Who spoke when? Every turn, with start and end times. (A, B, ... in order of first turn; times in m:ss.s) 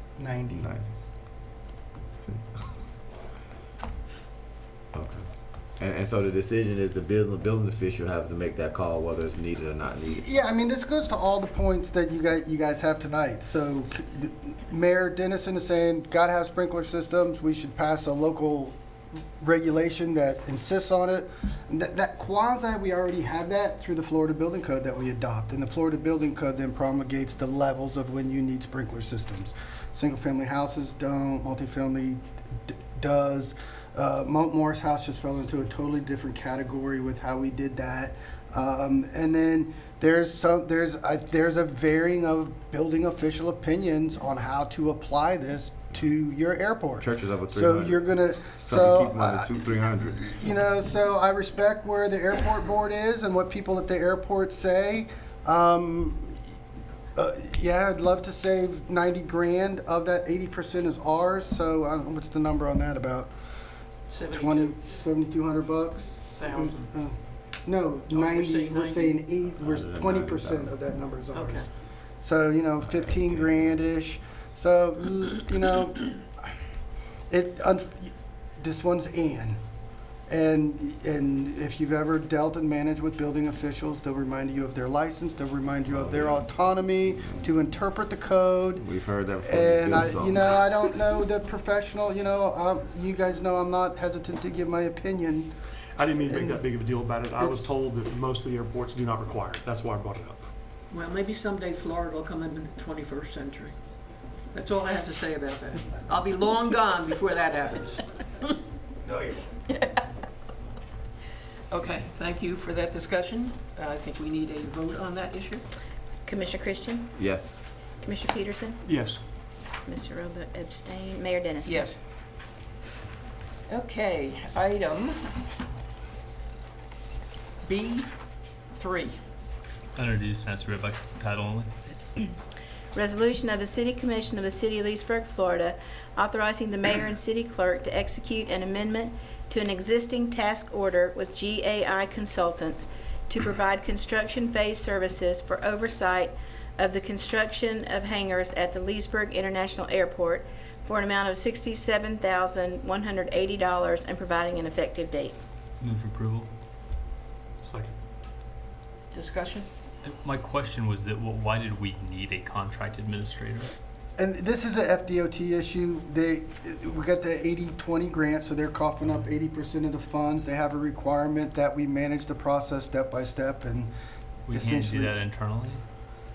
0:00.2-0:00.7 A
0:04.9-0:05.2 B
0:05.8-0:10.2 B
0:10.1-0:18.8 A
0:19.4-0:56.4 A
0:47.0-0:48.0 B
0:48.7-0:50.2 B
0:57.2-1:03.3 A
1:04.1-1:04.8 C
1:04.3-1:11.7 A
1:06.3-1:06.9 C
1:08.1-1:09.2 C
1:09.6-1:10.6 B
1:11.3-1:11.7 C
1:12.2-1:16.3 A
1:17.3-1:19.6 A
1:20.3-1:28.8 A
1:25.9-1:26.4 B
1:28.8-1:30.7 B
1:29.4-1:35.5 A
1:36.0-1:40.5 D
1:36.2-1:36.6 A
1:37.4-1:37.7 A
1:40.9-1:43.8 C
1:44.5-1:48.5 C
1:49.2-1:50.0 C
1:51.7-1:55.6 C
1:56.2-1:57.1 E
1:57.2-1:57.7 B
1:58.0-1:58.8 E
1:58.8-1:59.2 D
1:59.8-2:01.9 E
2:01.6-2:02.0 C
2:03.7-2:05.3 C
2:07.6-2:08.1 C
2:08.7-2:09.2 C
2:10.0-2:11.7 F
2:12.9-2:35.4 E
2:35.8-2:36.5 F
2:37.6-2:37.9 D
2:39.1-2:39.7 C
2:40.0-2:43.7 F
2:44.2-2:53.9 A
2:54.5-2:55.1 A
2:54.5-2:55.8 F